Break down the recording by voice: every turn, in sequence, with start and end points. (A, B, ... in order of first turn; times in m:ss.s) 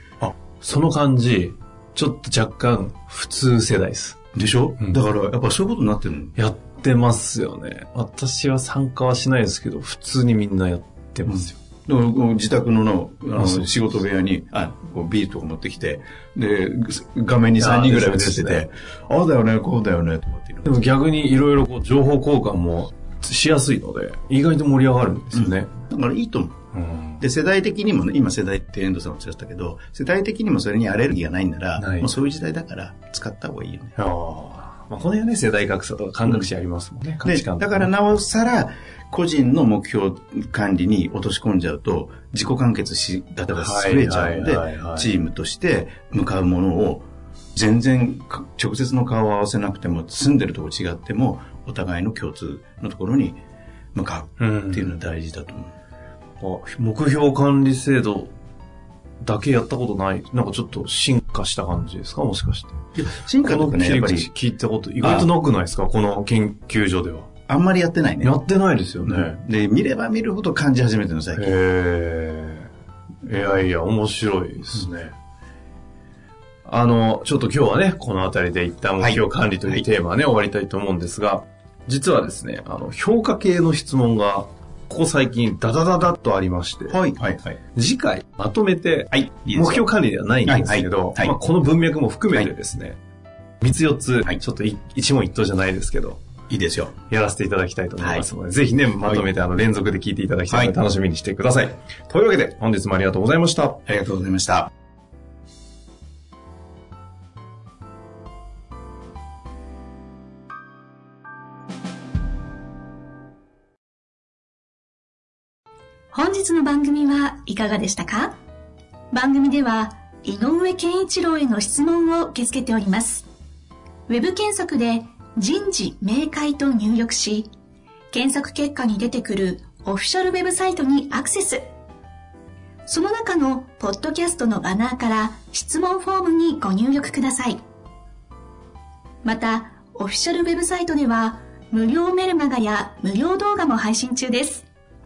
0:00.2-0:04.2 A
0:04.3-0:06.4 B
0:06.4-0:11.6 A
0:11.3-0:20.8 B
0:13.4-0:13.7 A
0:17.6-0:18.6 A
0:20.6-0:25.7 A
0:25.3-0:26.6 B
0:26.7-0:27.2 A
0:27.2-0:33.9 B
0:31.8-0:32.1 A
0:34.0-0:37.9 A
0:37.2-0:53.4 B
0:43.5-0:45.1 A
0:54.0-0:55.8 B
0:54.4-0:54.9 A
0:56.4-0:58.3 A
0:59.2-1:02.8 A
1:03.0-1:04.3 B
1:03.4-1:07.3 A
1:05.0-1:05.3 B
1:07.5-1:08.4 B
1:08.2-1:09.4 A
1:09.0-1:11.5 B
1:11.3-1:12.7 A
1:13.2-1:15.1 A
1:16.6-1:27.0 A
1:19.0-1:19.8 B
1:26.9-1:27.6 B
1:27.8-1:33.0 A
1:29.1-1:29.9 B
1:30.4-1:31.4 B
1:33.6-1:36.2 A
1:36.5-1:37.0 B
1:37.1-1:43.8 A
1:38.0-1:38.2 B
1:39.0-1:39.3 B
1:40.5-1:40.8 B
1:43.8-1:44.7 B
1:56.1-1:58.4 C
1:59.1-2:03.3 C
2:04.1-2:07.5 C
2:08.1-2:11.7 C
2:12.9-2:17.6 C
2:19.2-2:24.6 C